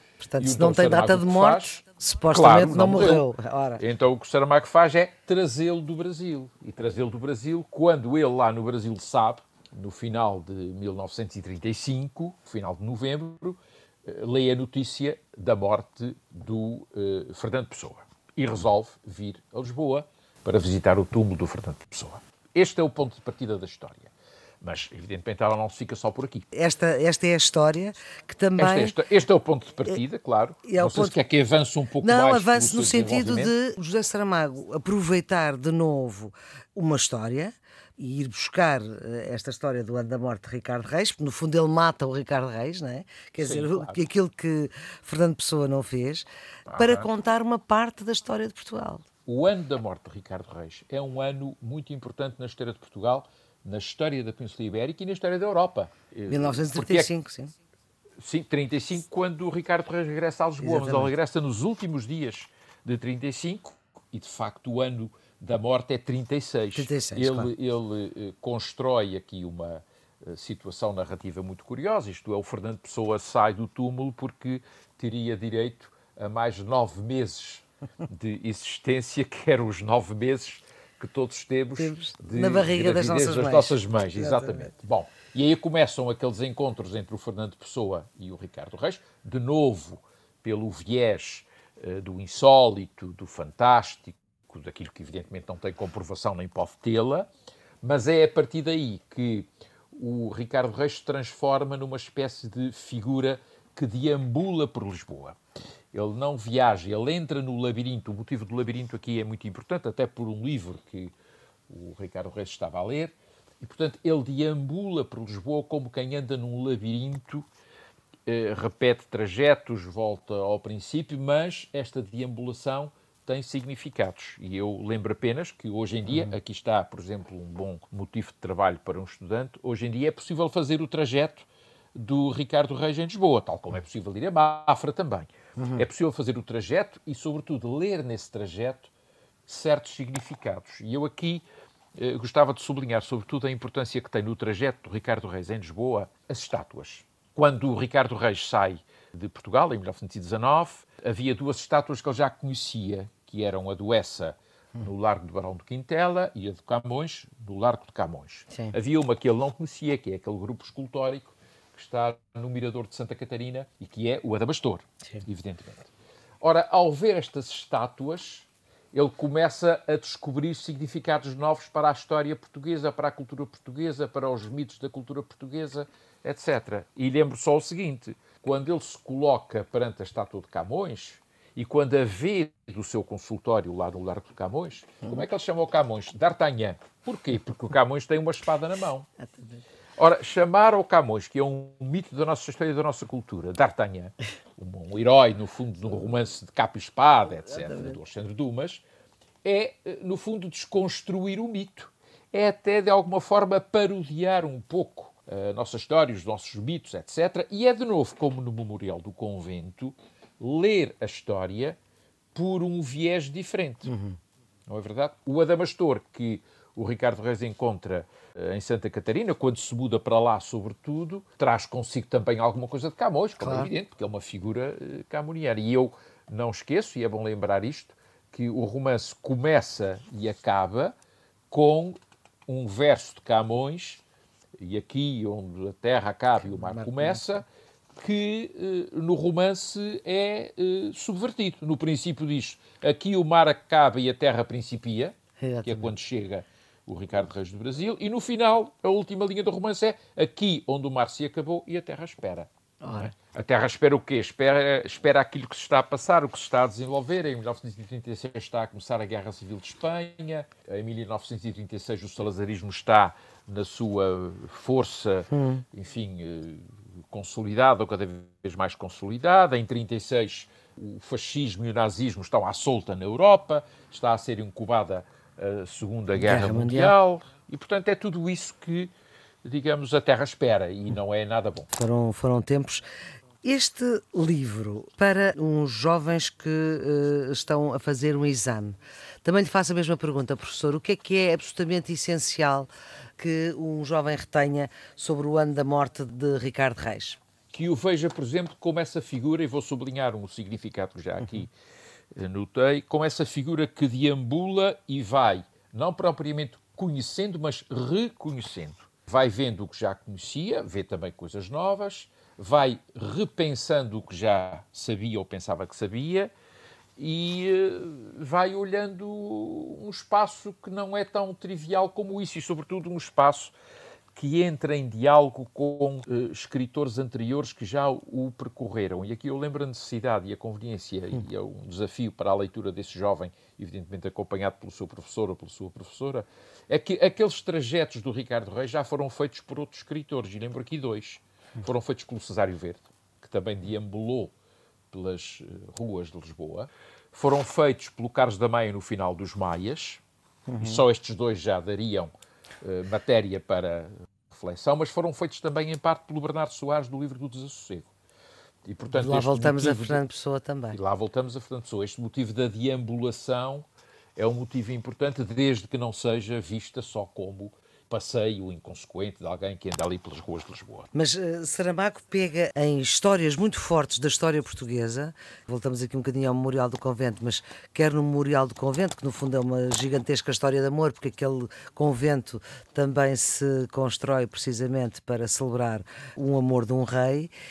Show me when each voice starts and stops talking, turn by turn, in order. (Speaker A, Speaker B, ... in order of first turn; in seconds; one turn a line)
Speaker A: 0.2-3.8
Speaker B: 0.4-3.2
Speaker B: 3.8-26.5
Speaker A: 26.5-28.9
Speaker B: 28.6-33.5
Speaker A: 30.6-31.2
Speaker A: 32.0-49.0
Speaker B: 43.4-44.0
Speaker B: 46.7-47.1
Speaker B: 49.2-57.1
Speaker A: 56.3-57.5
Speaker B: 58.2-97.3
Speaker A: 60.6-61.1
Speaker A: 66.7-67.5
Speaker A: 81.8-84.7
Speaker B: 97.8-105.4
Speaker B: 105.9-111.1
Speaker B: 111.7-117.4
Speaker B: 118.2-138.9
Speaker A: 135.6-135.8
Speaker B: 139.4-165.9
Speaker B: 166.4-189.1
Speaker A: 189.2-189.6
Speaker B: 190.0-198.8
Speaker B: 199.4-211.8
Speaker B: 212.3-213.9
Speaker A: 213.8-214.2
Speaker B: 214.7-230.9
Speaker A: 223.4-223.7
Speaker B: 231.5-234.0
Speaker B: 234.6-237.4
Speaker A: 236.5-237.2
Speaker B: 238.0-278.9
Speaker A: 245.4-245.9
Speaker A: 252.8-253.1
Speaker A: 265.3-265.6
Speaker A: 276.1-276.9
Speaker B: 279.4-281.7
Speaker A: 281.7-282.8
Speaker A: 283.4-297.2
Speaker B: 297.5-301.5
Speaker B: 302.1-316.3
Speaker B: 317.0-323.5
Speaker B: 324.1-344.3
Speaker B: 344.9-350.0
Speaker A: 350.5-350.8
Speaker B: 350.6-357.9
Speaker B: 358.7-360.0
Speaker A: 358.9-360.8
Speaker B: 360.7-370.9
Speaker A: 370.9-387.3